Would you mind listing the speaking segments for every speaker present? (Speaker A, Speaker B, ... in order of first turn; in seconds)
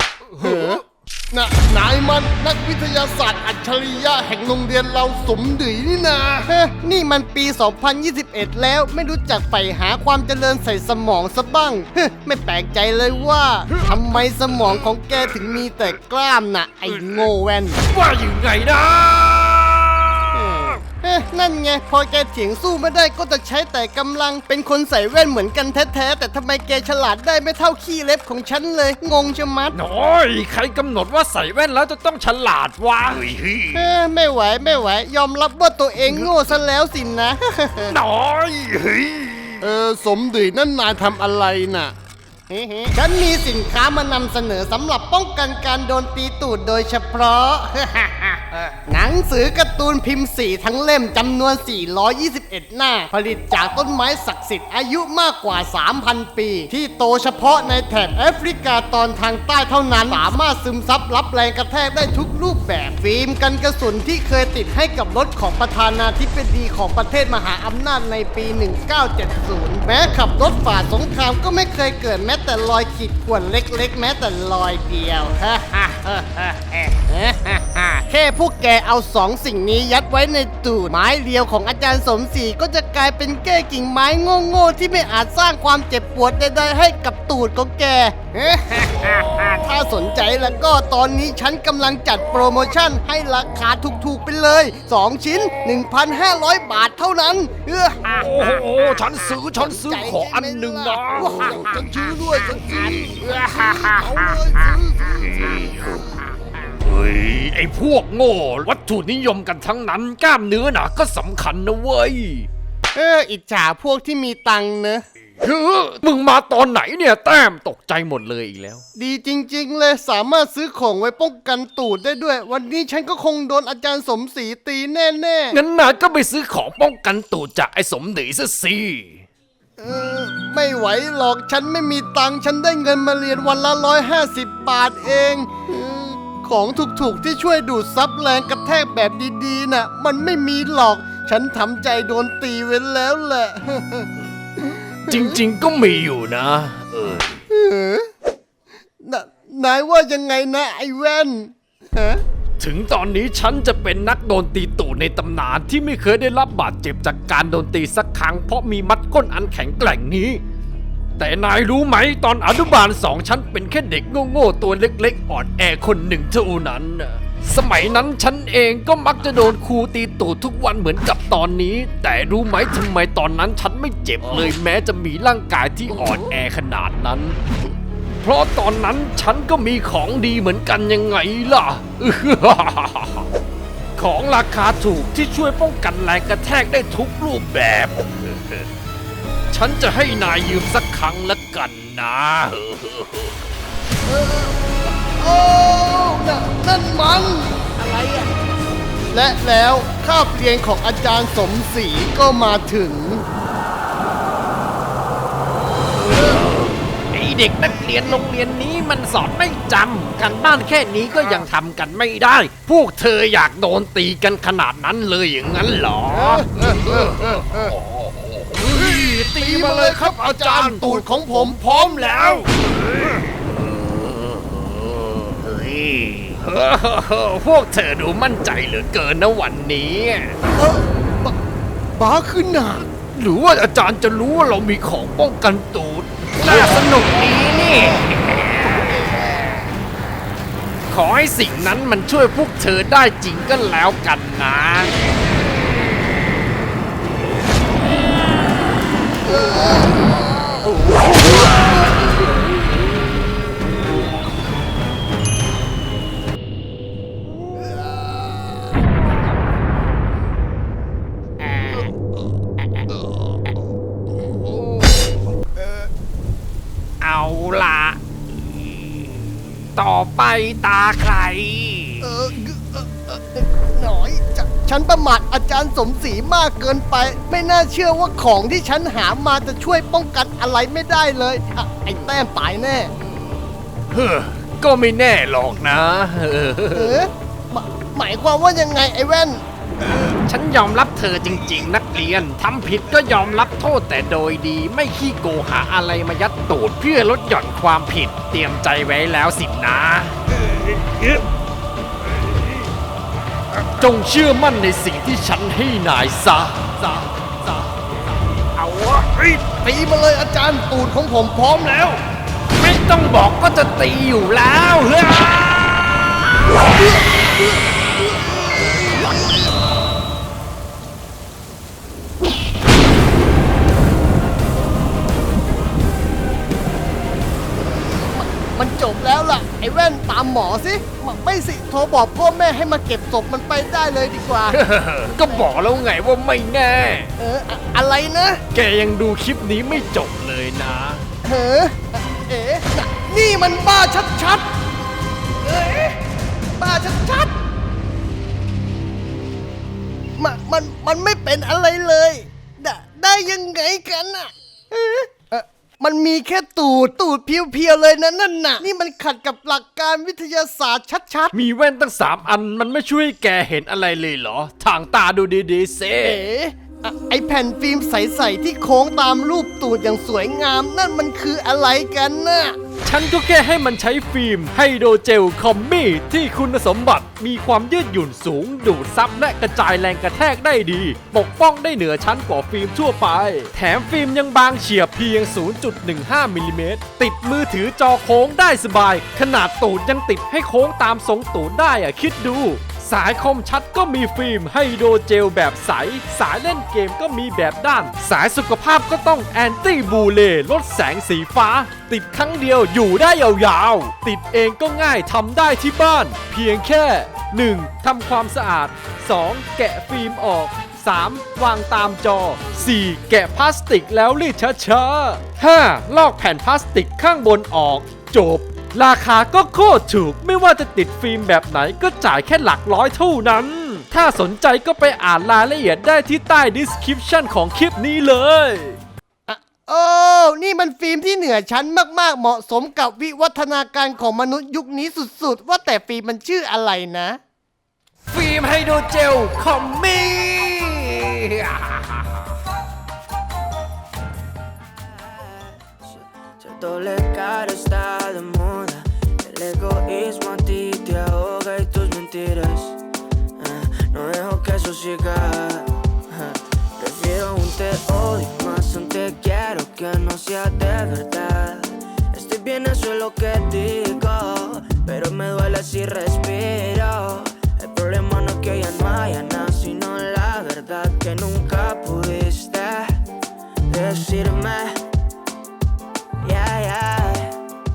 Speaker A: 0.3-0.7, 16.9-17.3, 17.8-20.8, 29.7-33.9, 36.0-36.3, 37.8-39.7, 98.1-101.9, 102.5-106.1, 106.8-112.5, 115.4-118.8, 125.5-129.3, 145.1-147.4, 152.6-160.4, 161.2-177.4, 178.2-183.3, 183.9-188.7, 189.5-193.4, 206.1-230.4, 233.1-239.1, 240.9-244.9, 261.4-261.9, 267.0-272.2, 283.9-287.1, 290.0-300.2, 303.7-307.1, 308.6-309.4, 312.5-316.5, 334.5-337.1, 338.5-341.0, 361.3-366.2, 372.8-428.8, 438.1-442.3
Speaker B: 0.4-17.8, 20.3-29.8, 33.7-38.0, 39.6-41.9, 42.5-98.3, 99.6-105.7, 112.9-115.0, 119.0-125.6, 129.8-144.1, 147.5-148.1, 149.0-152.2, 194.0-198.3, 199.1-203.2, 219.1-221.6, 230.6-231.3, 231.9-232.9, 272.0-282.9, 286.7-289.4, 309.6-312.0, 327.6-334.6, 335.1-335.4, 337.2-338.4, 341.2-344.4, 345.4-346.0, 346.6-347.3, 350.2-361.3, 366.0-372.6, 429.3-437.2
Speaker C: 444.9-452.8, 453.4-473.1, 473.7-474.9, 476.2-477.4